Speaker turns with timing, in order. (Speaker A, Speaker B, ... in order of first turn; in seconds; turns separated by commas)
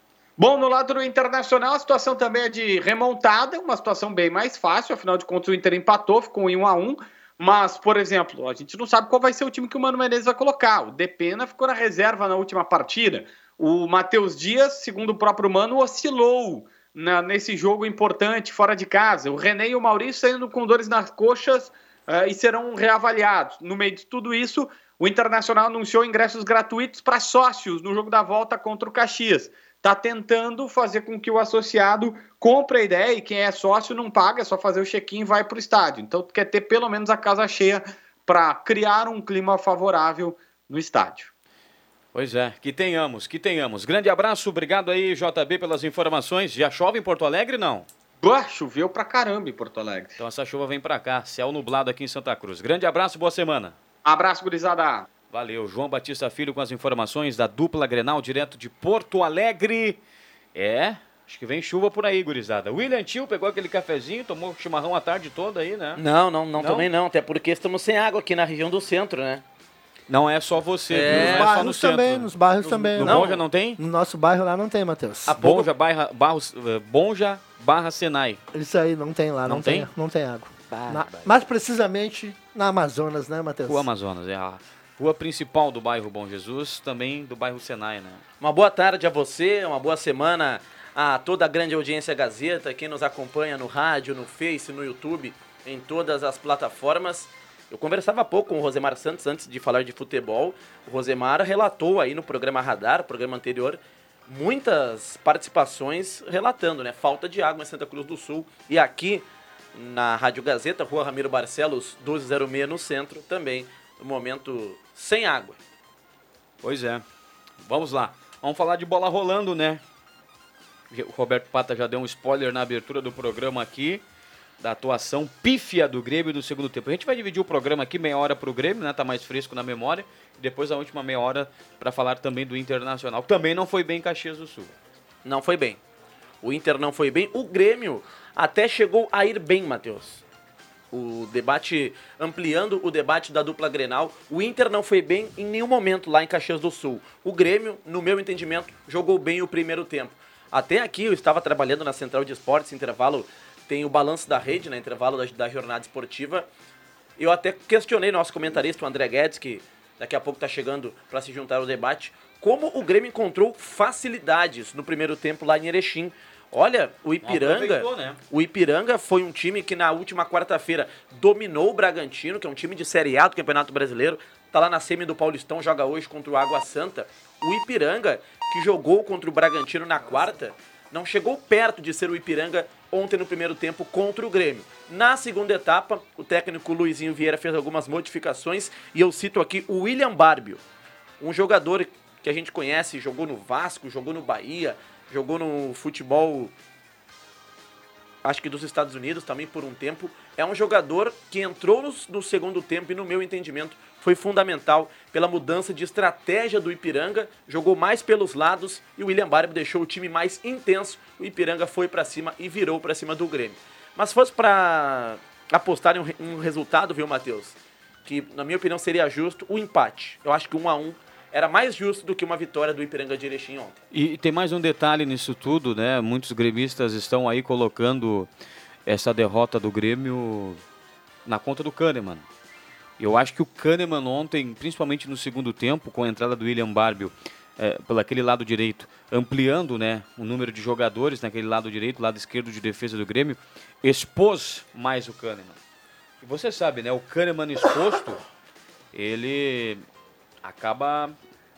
Speaker A: 0.4-41.3, Speaker B: 42.1-47.9, Speaker A: 48.2-50.2, Speaker B: 50.2-53.8, Speaker A: 54.0-55.0, Speaker B: 55.3-60.0, Speaker B: 60.5-66.0, Speaker C: 66.0-69.4, Speaker B: 66.6-66.9, Speaker B: 70.1-73.8, Speaker C: 70.9-71.6, Speaker D: 71.1-73.2, Speaker C: 72.7-73.4, Speaker D: 73.8-75.4, Speaker B: 75.3-78.4, Speaker C: 75.4-75.7, Speaker D: 78.5-83.9, Speaker B: 79.5-79.9, Speaker B: 80.7-81.3, Speaker B: 83.7-88.2, Speaker C: 88.4-109.2, Speaker C: 109.8-115.6, Speaker B: 116.6-117.0, Speaker B: 117.6-119.8, Speaker B: 120.9-124.0, Speaker B: 124.6-134.7, Speaker C: 135.2-135.8, Speaker C: 136.4-140.2, Speaker C: 140.9-156.5, Speaker C: 157.2-190.6, Speaker B: 167.2-168.2, Speaker C: 191.2-196.5, Speaker C: 198.2-223.8, Speaker B: 223.9-228.3, Speaker B: 228.9-230.6, Speaker B: 231.3-232.2, Speaker B: 233.0-245.6, Speaker B: 246.2-248.2, Speaker B: 248.9-249.8, Speaker B: 250.4-251.2